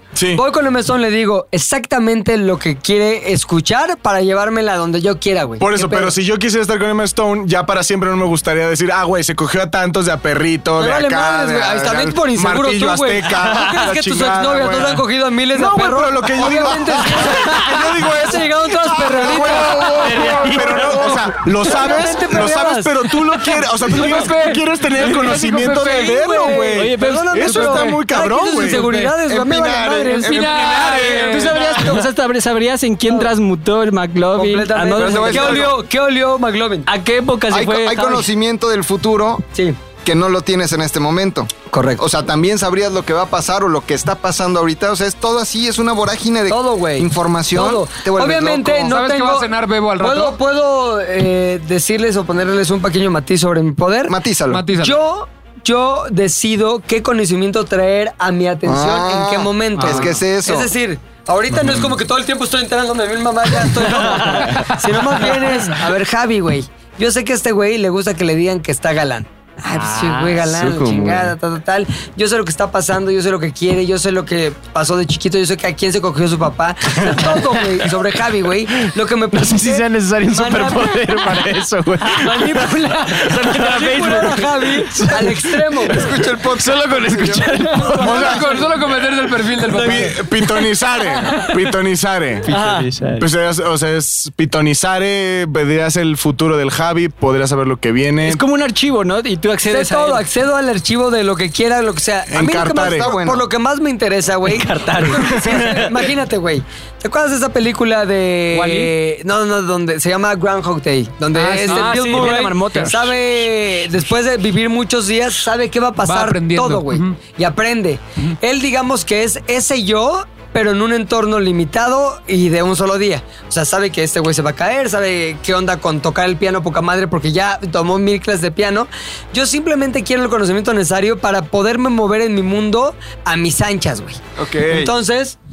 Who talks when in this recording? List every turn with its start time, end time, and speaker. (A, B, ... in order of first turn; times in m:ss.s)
0:00.2-0:00.4 A
0:00.3-0:06.1 B
0:05.6-0:28.9 A
0:10.8-0:20.0 B
0:11.3-0:11.8 C
0:20.0-0:21.3 D
0:20.6-0:23.0 B
0:23.9-0:26.6 E
0:25.9-0:32.1 B
0:26.7-0:27.7 D
0:27.6-0:28.0 E
0:28.5-0:29.2 E
0:29.2-0:31.5 C
0:30.1-0:31.6 E
0:31.1-0:35.7 D
0:34.3-0:36.9 B
0:34.9-0:35.8 C
0:36.9-0:38.3 D
0:37.5-0:39.4 C
0:40.0-0:48.9 C
0:41.7-0:42.0 B
0:46.5-0:54.2 B
0:48.8-0:50.4 E
0:54.1-0:54.6 C
0:54.5-0:55.0 E
0:54.7-1:21.1 B
0:58.6-1:00.7 C
0:59.8-1:00.1 D
1:04.0-1:04.6 D
1:09.8-1:10.4 D
1:10.4-1:11.3 F
1:19.3-1:22.7 F
1:22.2-1:26.2 B
1:23.1-1:24.7 D
1:25.9-1:27.6 C
1:26.4-1:28.0 F
1:27.5-1:28.5 D
1:27.8-1:28.4 B
1:27.9-1:30.3 E
1:28.0-1:28.6 A
1:29.7-1:30.1 D
1:29.7-1:32.5 A
1:32.5-1:33.3 D
1:33.2-1:38.4 A
1:38.2-1:40.2 D
1:39.7-2:15.4 B
1:42.3-1:43.1 A
1:42.8-1:43.5 C
1:44.4-1:46.1 D
1:48.5-1:48.9 E
1:51.4-1:52.9 E
1:51.5-1:53.1 D
1:56.0-1:57.2 E
2:14.4-2:14.9 A